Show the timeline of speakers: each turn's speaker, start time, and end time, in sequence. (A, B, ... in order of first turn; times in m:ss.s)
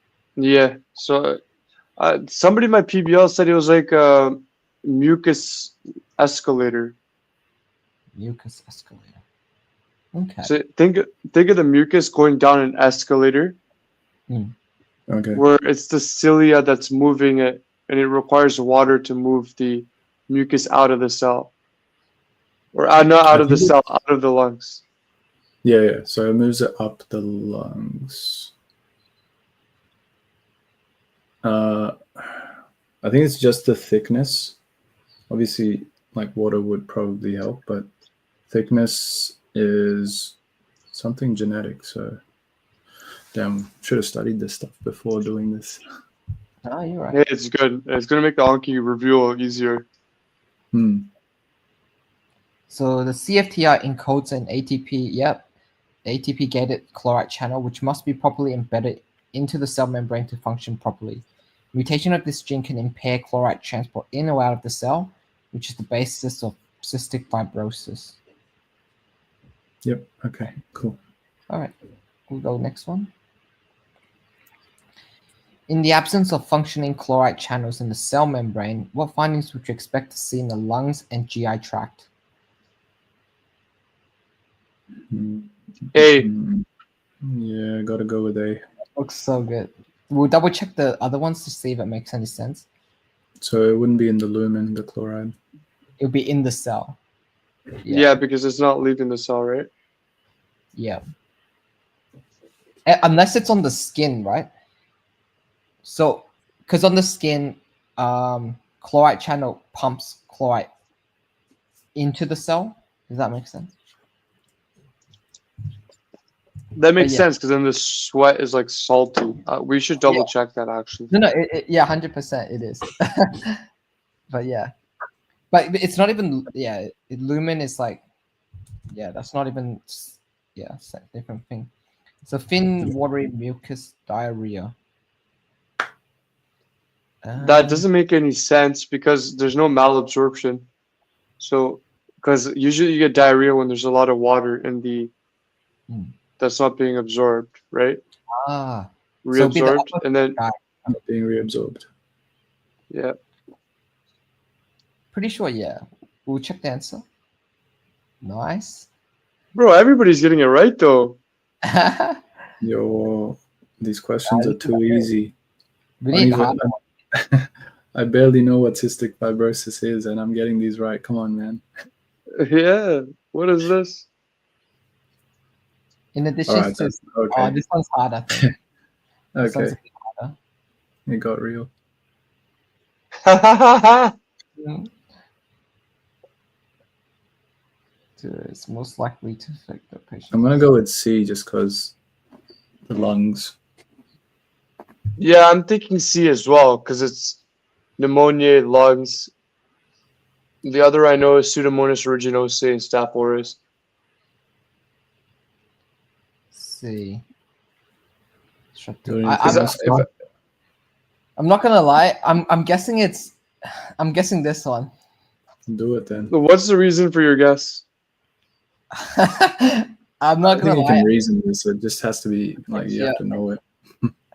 0:00.4-0:01.4 A
0:02.0-0:07.0 A
0:08.2-0:09.2 B
0:10.1-0:10.5 B
0:10.4-0:13.6 A
0:15.1-0:15.4 C
0:15.3-0:21.5 A
0:22.7-0:24.8 A
0:23.3-0:23.7 C
0:25.6-0:28.5 C
0:31.4-0:32.5 C
0:33.0-0:34.6 C
0:35.3-0:37.9 C
0:38.5-0:40.4 C
0:40.9-0:42.2 C
0:43.3-0:45.8 C
0:46.6-0:47.2 B
0:47.1-0:49.8 A
0:50.7-0:51.1 C
0:52.7-0:55.4 B
0:56.0-1:08.2 B
1:09.8-1:11.0 C
1:12.3-1:13.1 B
1:15.7-1:22.0 B
1:25.1-1:26.6 C
1:25.9-1:26.3 A
1:27.2-1:28.6 C
1:29.0-1:32.6 B
1:33.4-1:35.4 C
1:36.0-1:37.0 B
1:37.8-1:38.2 B
1:37.9-1:39.7 A
1:40.7-1:41.0 B
1:42.9-1:44.5 B
1:45.8-1:50.7 B
1:51.9-1:53.7 B
1:56.7-2:01.1 A
1:57.0-1:57.3 B
2:01.1-2:03.6 B
2:04.3-2:04.7 B
2:05.5-2:08.0 B
2:08.9-2:11.7 B
2:12.2-2:14.7 B
2:17.2-2:17.8 B
2:17.4-2:20.7 A
2:21.4-2:25.1 A
2:25.9-2:26.1 B
2:26.4-2:28.0 A
2:28.3-2:30.6 B
2:29.2-2:30.4 A
2:30.9-2:31.9 C
2:35.1-2:37.0 B
2:38.2-2:38.9 B
2:39.5-2:41.2 A
2:41.6-2:42.2 B
2:42.6-2:45.3 C
2:44.3-2:45.0 B
2:46.0-2:46.7 B
2:46.1-2:51.6 C
2:52.4-2:54.1 A
2:56.1-2:58.5 B
2:56.5-2:57.6 C
2:59.3-2:59.8 C
2:59.4-3:00.3 B
3:01.1-3:01.7 C
3:03.2-3:04.1 A
3:04.6-3:04.9 B
3:08.2-3:10.7 B
3:10.3-3:12.0 C
3:12.9-3:13.6 C
3:15.2-3:17.4 A
3:18.0-3:19.3 A
3:20.6-3:23.6 A
3:26.5-3:27.2 B
3:28.7-3:29.8 B
3:29.0-3:30.1 C
3:29.4-3:30.0 A
3:31.4-3:33.4 B
3:34.0-3:34.9 B
3:35.7-3:36.3 C
3:36.3-3:37.8 A
3:38.9-3:41.1 B
3:40.4-3:44.1 C
3:42.7-3:43.2 B